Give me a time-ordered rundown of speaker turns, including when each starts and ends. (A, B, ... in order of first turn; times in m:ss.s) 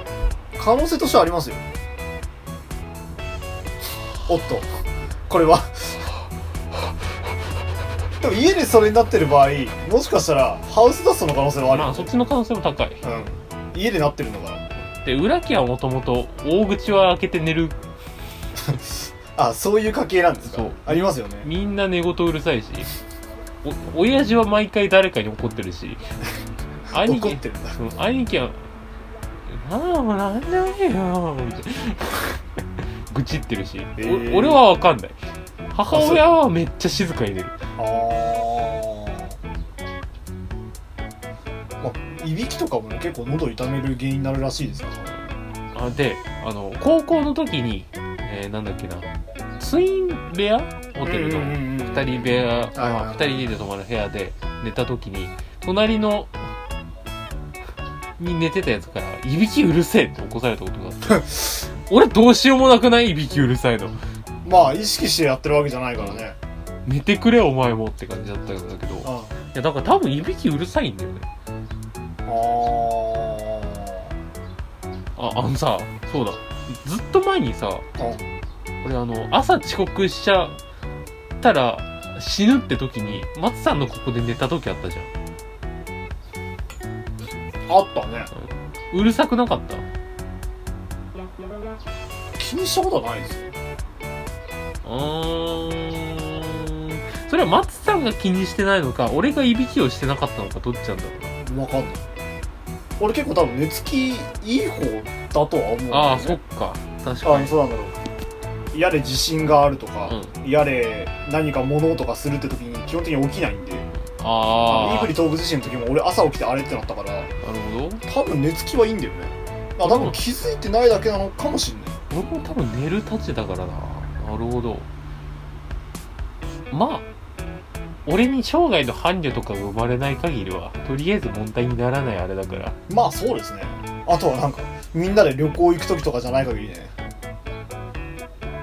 0:00.6-0:01.6 A
0:04.3-0:04.7 A
0:05.3-0:06.1 A
0:08.2-0:12.1 A
0:11.7-0:13.0 B
0:13.0-0:14.7 A
0:14.9-0:17.8 B
0:18.6-0:21.5 A
0:20.5-0:22.9 B
0:23.6-0:26.0 B
0:26.9-0:28.7 B
0:26.9-0:27.8 A
0:29.5-0:32.4 B
0:33.1-0:35.2 B
0:34.0-0:34.6 A
0:35.7-0:37.6 B
0:35.9-0:36.3 A
0:37.8-0:39.4 A
0:41.8-0:45.1 A
0:45.7-0:56.4 B
0:51.0-0:53.4 A
0:58.2-1:04.0 B
1:04.4-1:06.4 A
1:06.9-1:11.3 B
1:09.0-1:09.4 A
1:12.3-1:14.1 A
1:15.2-1:17.9 B
1:18.0-1:18.3 A
1:18.8-1:20.6 B
1:21.4-1:25.1 B
1:27.7-1:28.3 A
1:28.4-1:29.9 B
1:32.4-1:33.6 A
1:34.8-1:41.4 B
1:41.4-1:42.1 A
1:43.0-1:46.4 A
1:45.9-1:47.6 B
1:47.2-1:48.0 A
1:48.7-1:53.9 A
1:50.1-1:50.4 B
1:54.2-1:55.2 B
1:54.7-1:57.3 A
1:57.4-1:58.0 B
1:58.0-2:02.0 A
1:59.8-2:00.2 B
2:02.1-2:04.9 B
2:06.7-2:07.1 B
2:08.1-2:12.8 B
2:12.9-2:16.9 A